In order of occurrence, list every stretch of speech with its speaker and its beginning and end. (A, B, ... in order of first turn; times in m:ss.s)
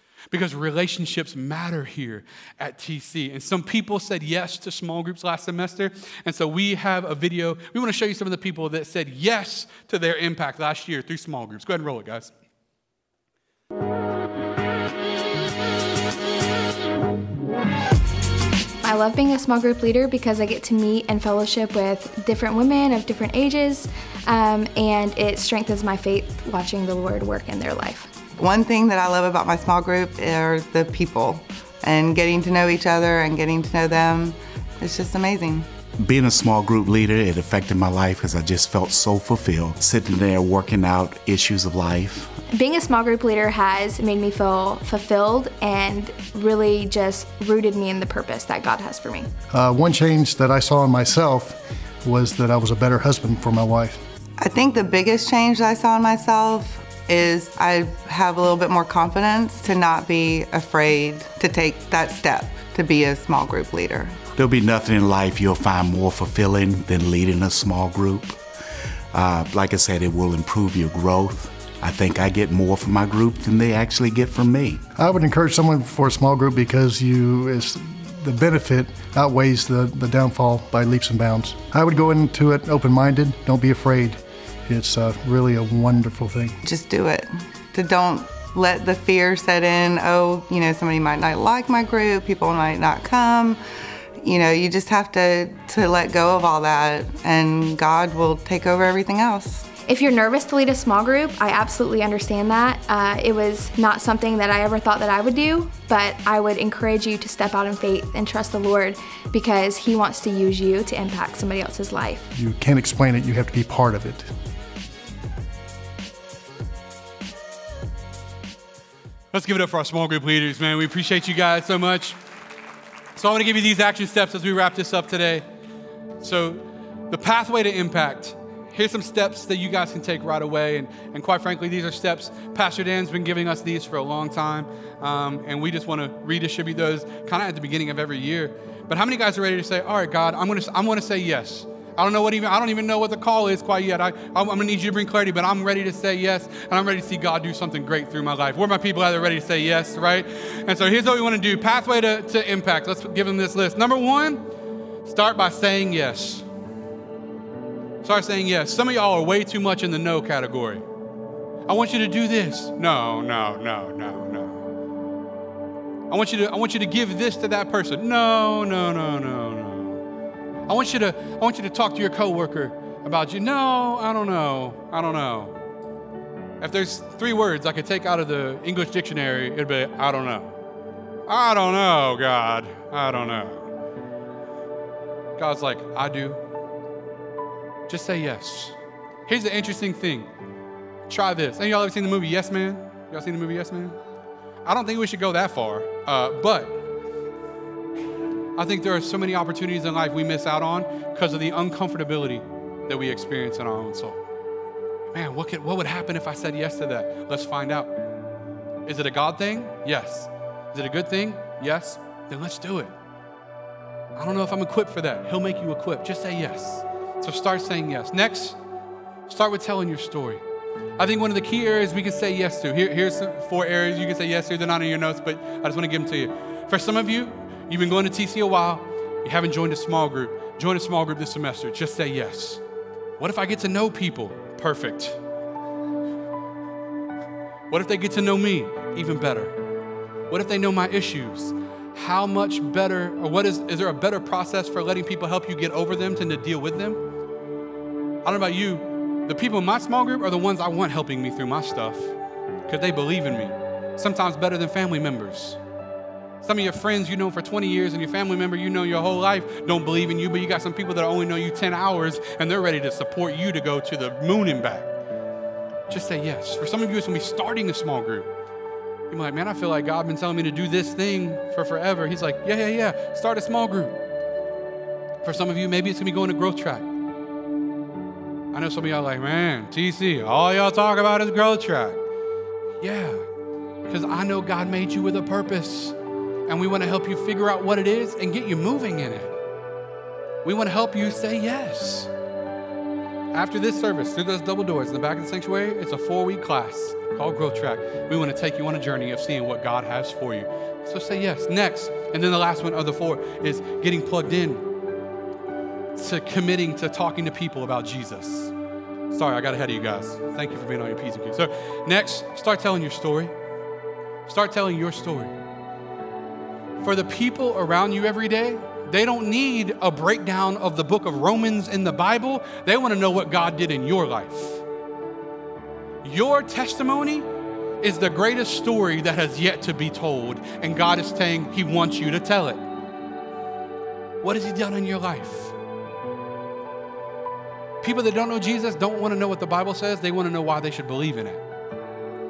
0:00.3-0:12.3 A
0:18.8-0:28.1 B
0:28.4-0:35.7 C
0:36.0-0:42.3 D
0:42.5-0:49.3 B
0:49.5-0:54.0 E
0:54.4-1:04.2 C
1:04.4-1:08.4 D
1:09.1-1:14.8 D
1:15.0-1:26.6 E
1:26.6-1:33.6 C
1:34.2-1:39.6 C
1:39.9-1:52.3 B
1:52.3-1:54.3 E
1:59.3-2:02.2 A
2:03.2-2:05.4 A
2:06.2-2:34.4 A
2:35.0-2:36.4 A
2:38.0-2:40.8 A
2:41.7-2:44.6 A
2:46.1-2:50.0 A
2:50.7-2:55.6 A
2:56.6-3:00.6 A
3:01.3-3:03.7 A
3:05.4-3:06.4 A
3:07.9-3:10.3 A
3:11.1-3:14.0 A
3:14.6-3:16.8 A
3:18.6-3:24.2 A
3:25.1-3:27.9 A
3:28.8-3:32.9 A
3:34.2-3:38.6 A
3:39.3-3:40.4 A
3:41.0-3:52.6 A
3:53.2-3:55.2 A
3:57.7-3:59.6 A
4:00.3-4:07.0 A
4:08.2-4:15.6 A
4:16.4-4:24.9 A
4:25.9-4:28.3 A
4:29.1-4:34.0 A
4:35.2-4:36.9 A
4:38.5-4:42.0 A
4:42.8-4:43.2 A
4:43.8-4:46.0 A
4:46.5-4:49.4 A
4:50.4-4:52.1 A
4:53.3-5:04.6 A
5:05.9-5:08.5 A
5:09.1-5:13.3 A
5:14.3-5:15.3 A
5:16.8-5:24.6 A
5:26.0-5:27.3 A
5:27.8-5:32.6 A
5:34.2-5:35.5 A
5:37.8-5:41.4 A